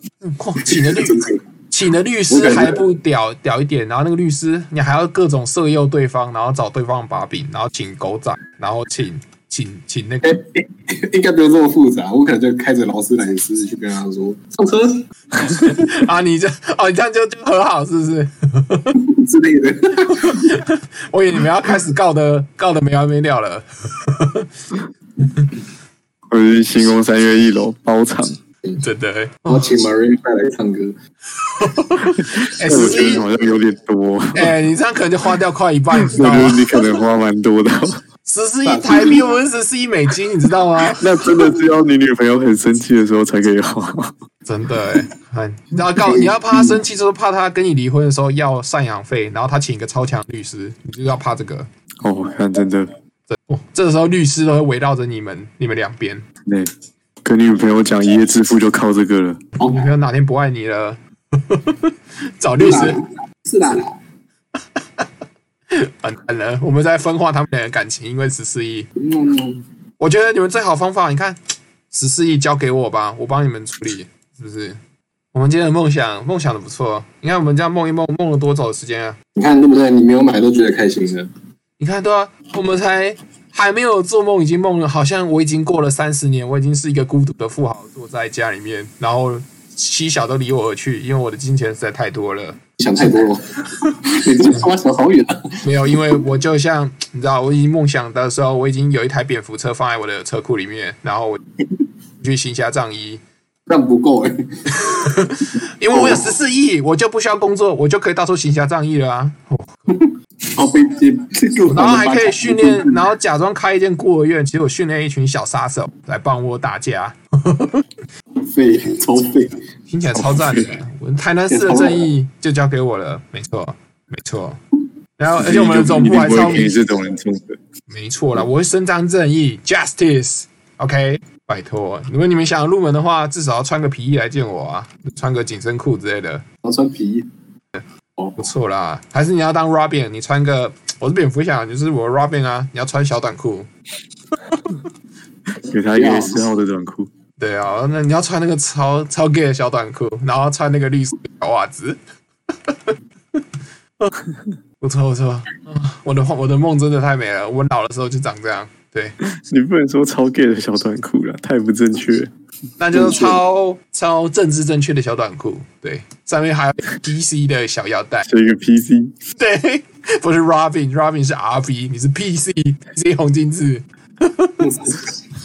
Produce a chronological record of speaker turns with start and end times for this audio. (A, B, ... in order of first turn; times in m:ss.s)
0:00.2-0:10.4 A
0:00.7-0:01.4 B
0:02.3-0:02.8 B
0:10.2-0:15.1 B
0:15.4-0:19.0 A
0:19.0-0:20.6 B
0:20.1-0:24.5 A
0:26.3-0:28.4 C
0:28.8-0:29.8 A
0:29.5-0:31.0 B
0:31.4-0:33.2 A
0:32.4-0:34.6 C
0:34.4-0:36.8 A
0:36.0-0:38.0 C
0:38.3-0:41.1 A
0:38.7-0:39.3 B
0:41.0-0:44.1 C
0:44.5-0:51.7 A
0:46.1-0:46.8 B
0:52.0-0:52.9 C
0:53.3-0:56.2 A
0:57.2-0:59.4 C
0:59.6-0:59.9 B
0:59.6-1:03.0 A
1:02.6-1:04.0 B
1:05.7-1:08.9 A
1:09.0-1:09.6 B
1:10.0-1:11.4 A
1:11.9-1:14.8 A
1:15.3-1:19.2 A
1:19.4-1:21.3 B
1:21.8-1:32.6 A
1:32.8-1:35.6 B
1:35.6-1:41.4 A
1:42.2-1:43.2 A
1:43.7-1:45.0 B
1:44.8-1:49.9 A
1:45.9-1:46.3 B
1:49.9-1:53.0 B
1:51.7-1:57.8 A
1:58.4-1:59.6 B
1:59.9-2:04.6 A
2:00.1-2:00.7 C
2:01.5-2:02.1 B
2:05.2-2:06.8 A
2:05.3-2:07.6 C
2:07.9-2:16.4 A
2:16.6-2:17.3 B
2:18.4-2:23.7 A
2:25.6-2:27.1 C
2:26.0-2:26.4 B
2:27.4-2:32.0 A
2:32.7-2:33.0 A
2:34.8-2:39.2 A
2:39.2-2:42.3 C
2:42.8-2:48.3 A
2:42.9-2:43.4 C
2:48.3-2:49.1 C
2:49.4-2:54.6 A
2:54.6-2:55.1 B